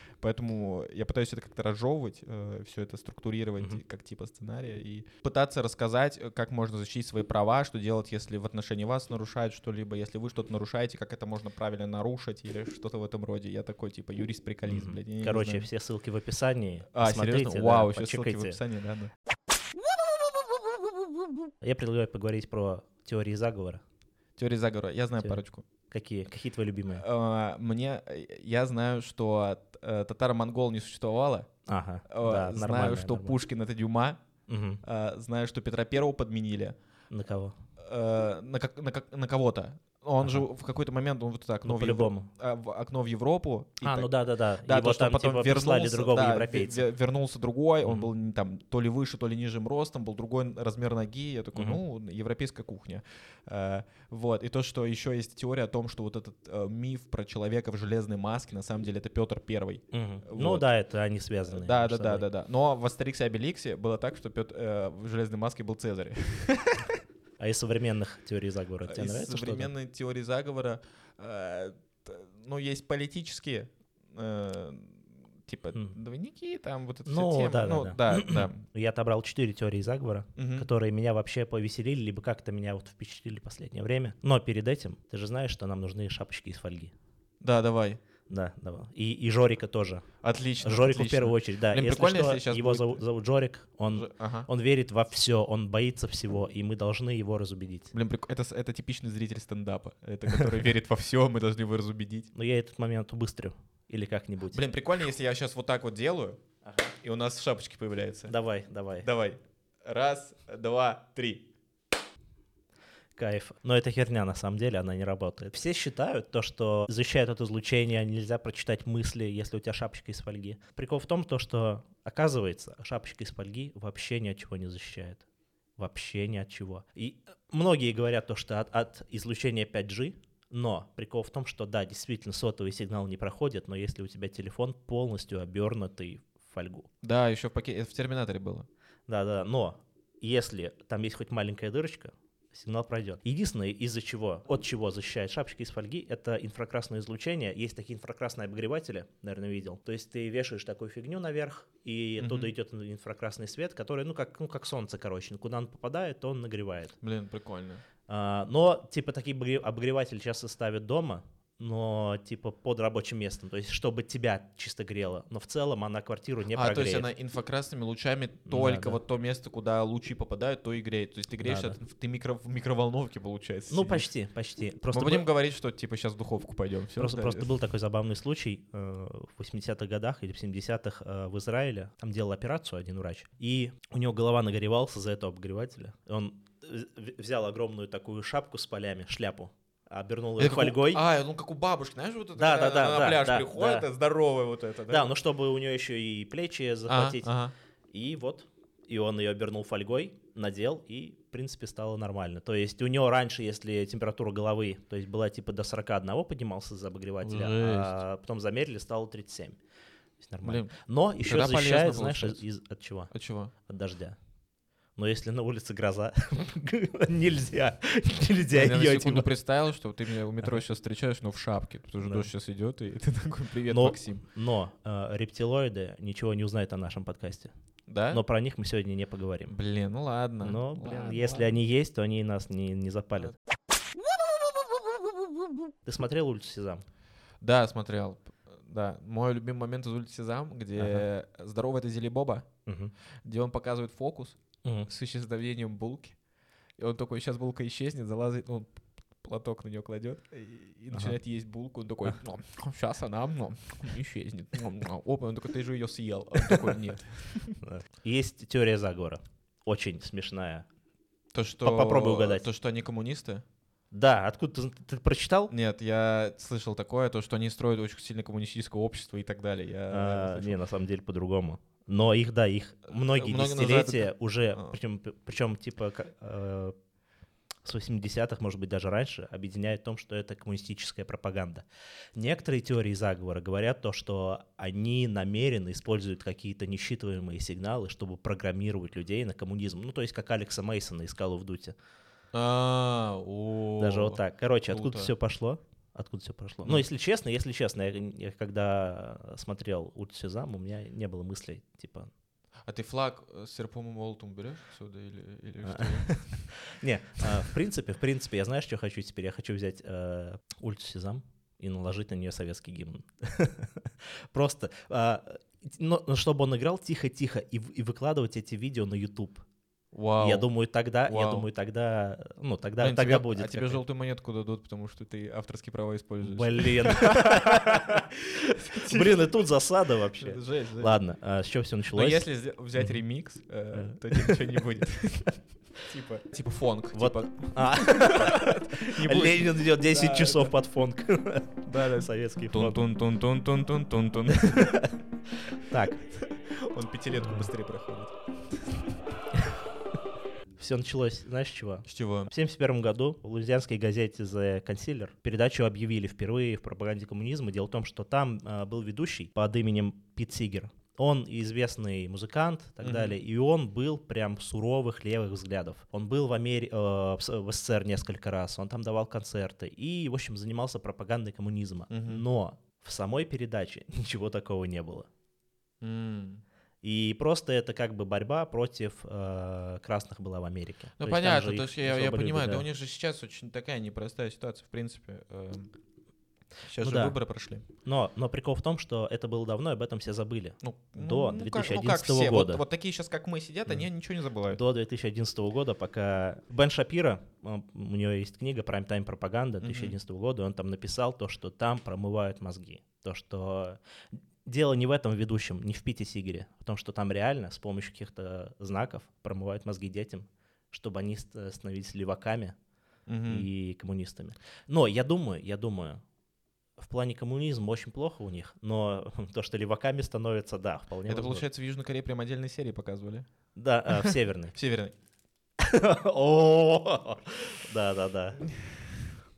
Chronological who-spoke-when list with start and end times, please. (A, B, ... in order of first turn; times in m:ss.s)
0:00.2-0:15.7 A
0:14.7-0:18.6 B
0:16.9-0:19.1 A
0:21.6-0:23.8 B
0:24.4-0:25.6 A
0:25.2-0:27.0 B
0:26.9-0:31.5 A
0:31.7-0:33.4 B
0:32.1-0:34.2 A
0:34.5-0:34.8 B
0:34.8-0:36.8 A
0:37.1-0:37.6 B
0:37.8-1:00.6 A
0:41.6-0:42.3 B
0:43.8-0:46.9 B
0:47.8-0:48.1 B
0:51.5-0:51.8 B
0:59.9-1:02.3 B
1:01.5-1:07.0 A
1:07.4-1:09.7 B
1:08.9-1:18.6 A
1:17.0-1:26.9 B
1:20.4-1:20.7 A
1:27.4-1:28.0 A
1:28.3-1:30.1 B
1:30.2-1:33.0 A
1:30.6-1:37.9 B
1:33.9-1:34.5 A
1:37.9-1:42.3 A
1:42.3-1:44.6 B
1:44.5-1:46.4 A
1:46.6-1:46.9 B
1:47.0-1:48.3 A
1:48.3-1:49.1 B
1:49.0-1:51.5 A
1:53.2-2:05.2 B
2:05.8-2:16.9 B
2:17.0-2:18.7 A
2:19.1-2:37.0 B
2:32.2-2:32.5 A
2:37.0-2:37.8 A
2:38.1-2:47.1 B
2:46.5-2:54.1 A
2:48.5-2:49.0 B
2:51.4-2:51.8 B
2:53.7-2:55.3 B
2:54.9-2:57.5 A
2:57.0-3:11.0 B
3:10.4-3:15.1 A
3:12.4-3:13.9 B
3:14.9-3:17.3 B
3:16.9-3:17.5 A
3:17.9-3:29.6 B
3:27.2-3:28.0 A
3:30.2-3:33.1 B
3:30.4-3:32.4 A
3:33.1-3:33.5 A
3:33.7-3:34.2 B
3:35.0-3:39.3 B
3:38.5-3:44.2 A
3:42.0-3:42.3 B
3:43.7-3:47.5 B
3:47.9-3:48.2 A
3:48.1-3:49.6 B
3:49.5-3:51.6 A
3:50.4-3:53.4 B
3:55.9-3:56.8 B
3:57.4-4:02.5 A
4:00.8-4:01.0 B
4:02.7-4:02.9 B
4:03.2-4:06.2 A
4:06.8-4:08.7 A
4:09.2-4:17.6 A
4:17.6-4:20.7 B
4:21.3-4:23.4 A
4:21.6-4:22.5 B
4:23.9-4:25.5 B
4:25.5-4:30.6 A
4:29.9-4:36.8 B
4:32.9-4:34.8 A
4:37.6-4:41.6 B
4:42.2-4:51.8 B
4:52.3-4:55.1 A
4:53.8-5:02.1 B
5:02.7-5:06.5 A
5:05.6-5:19.4 B
5:19.9-5:20.5 A
5:20.2-5:23.8 B
5:21.1-5:21.5 A
5:22.8-5:29.4 A
5:26.2-5:28.0 B
5:28.7-5:32.3 B
5:30.2-5:31.0 A
5:31.9-5:40.6 A
5:33.7-5:34.4 B
5:36.9-5:42.8 B
5:41.6-5:44.9 A
5:44.3-5:46.0 B
5:46.0-5:48.9 A
5:50.6-6:15.1 B
5:51.9-5:52.3 A
6:02.8-6:03.2 A
6:11.9-6:12.2 A
6:15.8-6:16.4 A
6:16.8-6:22.6 B
6:21.0-6:25.7 A
6:26.6-6:27.6 A
6:26.8-6:27.2 B
6:27.8-6:32.6 B
6:30.6-6:34.6 A
6:34.5-6:52.6 B
6:39.6-6:40.0 A
6:53.1-6:53.5 A
6:53.2-6:56.0 B
6:56.8-7:01.5 B
7:01.1-7:03.3 A
7:03.6-7:04.6 B
7:03.9-7:04.9 A
7:05.6-7:08.5 B
7:08.5-7:08.8 A